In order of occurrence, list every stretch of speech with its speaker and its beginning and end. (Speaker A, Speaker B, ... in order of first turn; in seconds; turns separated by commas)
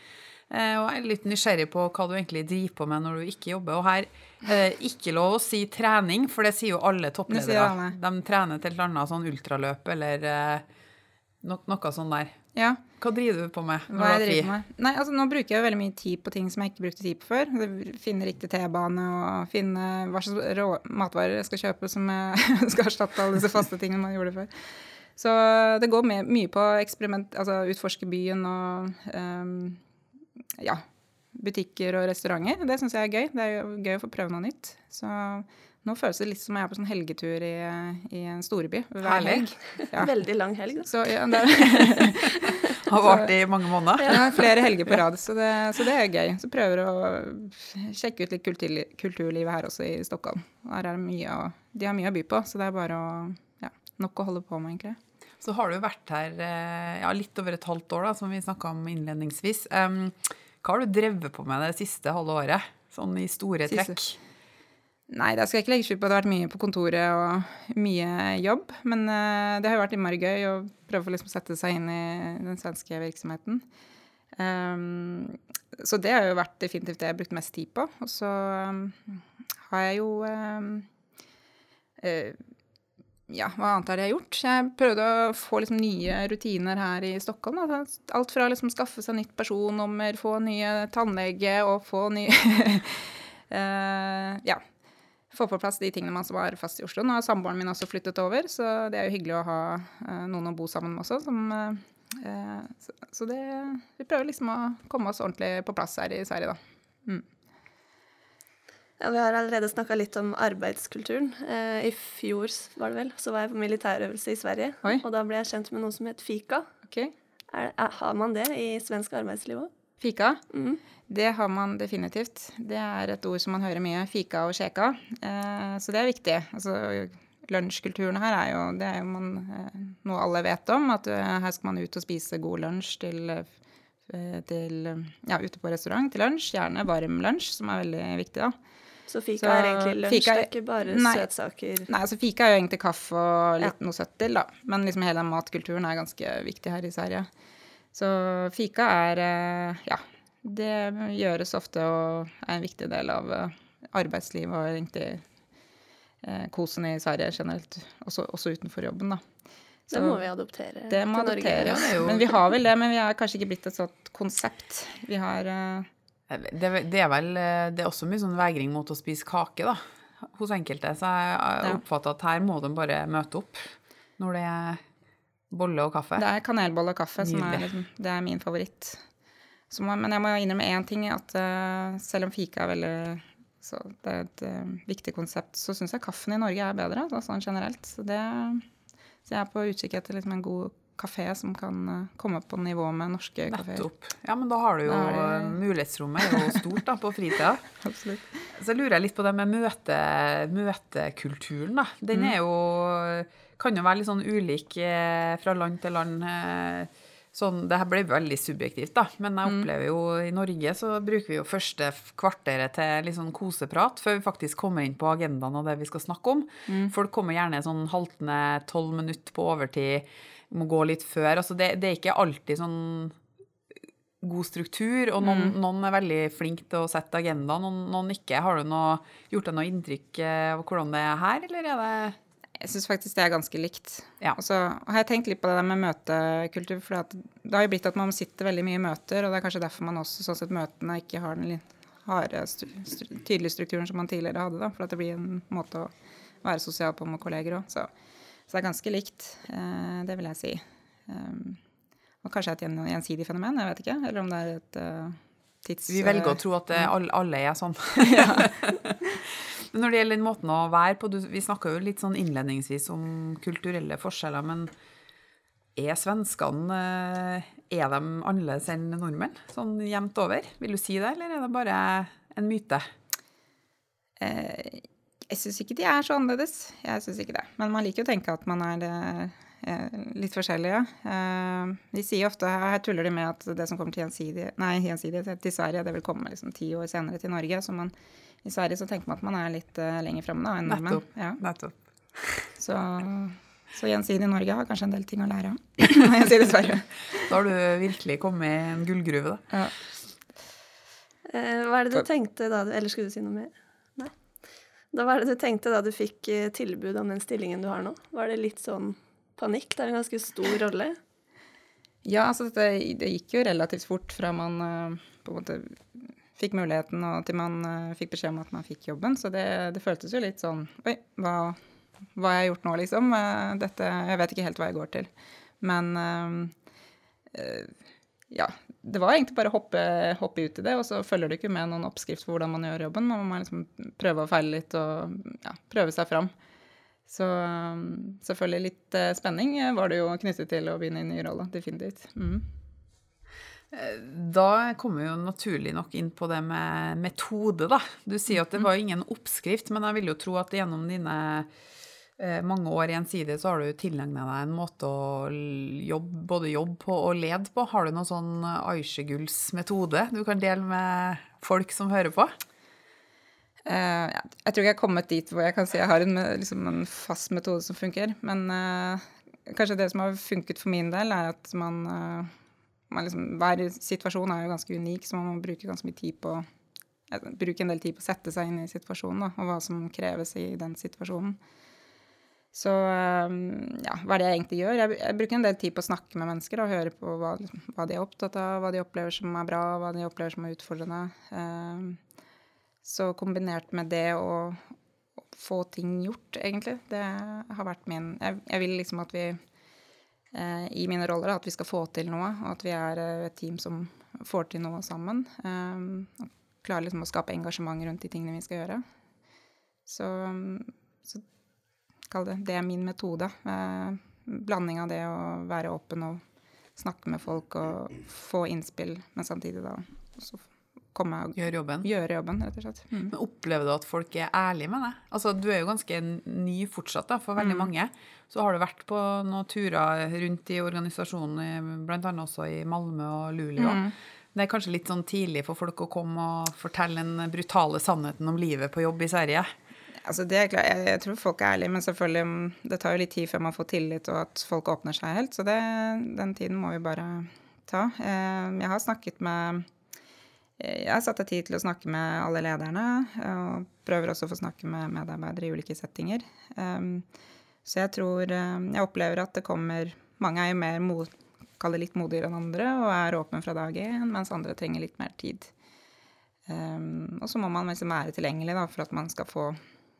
Speaker A: 0.5-10.6, Speaker B: 7.3-8.0, Speaker A: 11.4-12.4, Speaker B: 12.5-12.8, Speaker A: 13.0-14.5, Speaker B: 13.9-29.8, Speaker B: 30.6-40.1, Speaker A: 39.0-39.5, Speaker C: 39.9-42.0, Speaker B: 40.8-43.3, Speaker A: 42.8-45.0, Speaker B: 44.0-55.0, Speaker A: 55.4-64.2, Speaker B: 63.7-64.0, Speaker B: 65.1-73.6, Speaker B: 74.3-80.9, Speaker B: 82.0-82.4, Speaker B: 83.3-94.6, Speaker B: 95.3-107.2, Speaker C: 109.0-116.7, Speaker C: 117.5-119.7, Speaker B: 120.0-120.4, Speaker C: 120.5-120.8, Speaker B: 121.1-133.5, Speaker B: 134.1-138.5, Speaker C: 139.1-141.9, Speaker B: 139.4-141.3, Speaker B: 141.9-147.3, Speaker B: 147.9-155.2, Speaker B: 156.2-159.2, Speaker B: 159.9-160.2, Speaker C: 159.9-162.2, Speaker B: 160.9-165.9, Speaker A: 161.6-162.2, Speaker A: 166.3-174.8, Speaker A: 175.5-176.2, Speaker B: 176.2-179.0, Speaker A: 177.2-177.7, Speaker B: 179.7-188.6, Speaker B: 189.2-193.8, Speaker A: 193.5-197.6, Speaker B: 194.8-195.6, Speaker B: 197.8-198.2, Speaker A: 198.5-223.2, Speaker A: 224.2-232.2, Speaker B: 225.2-225.5, Speaker B: 232.6-245.9, Speaker B: 246.4-247.9, Speaker B: 248.5-251.6, Speaker B: 252.2-256.9, Speaker A: 255.9-264.7, Speaker B: 258.0-258.5, Speaker A: 265.8-272.9, Speaker B: 274.2-291.4, Speaker A: 290.6-292.5, Speaker B: 292.6-297.3, Speaker A: 297.2-299.4, Speaker C: 301.2-304.1, Speaker C: 304.9-311.0, Speaker B: 312.0-321.6, Speaker B: 322.1-325.1, Speaker B: 325.6-326.5, Speaker B: 327.3-327.7, Speaker B: 328.3-336.3, Speaker B: 337.1-342.5, Speaker A: 343.7-351.5, Speaker A: 352.2-362.4, Speaker B: 363.6-372.3, Speaker B: 372.9-376.4, Speaker B: 377.1-381.4, Speaker B: 382.5-392.0, Speaker B: 392.8-394.6, Speaker B: 395.3-399.4, Speaker B: 400.3-408.8, Speaker B: 409.9-411.2, Speaker B: 412.1-416.2, Speaker B: 416.8-423.1, Speaker A: 421.4-421.9, Speaker A: 423.1-439.5, Speaker B: 427.4-427.7, Speaker B: 433.6-433.9, Speaker B: 440.0-449.7, Speaker B: 450.6-457.1, Speaker B: 457.6-465.5, Speaker B: 466.5-469.6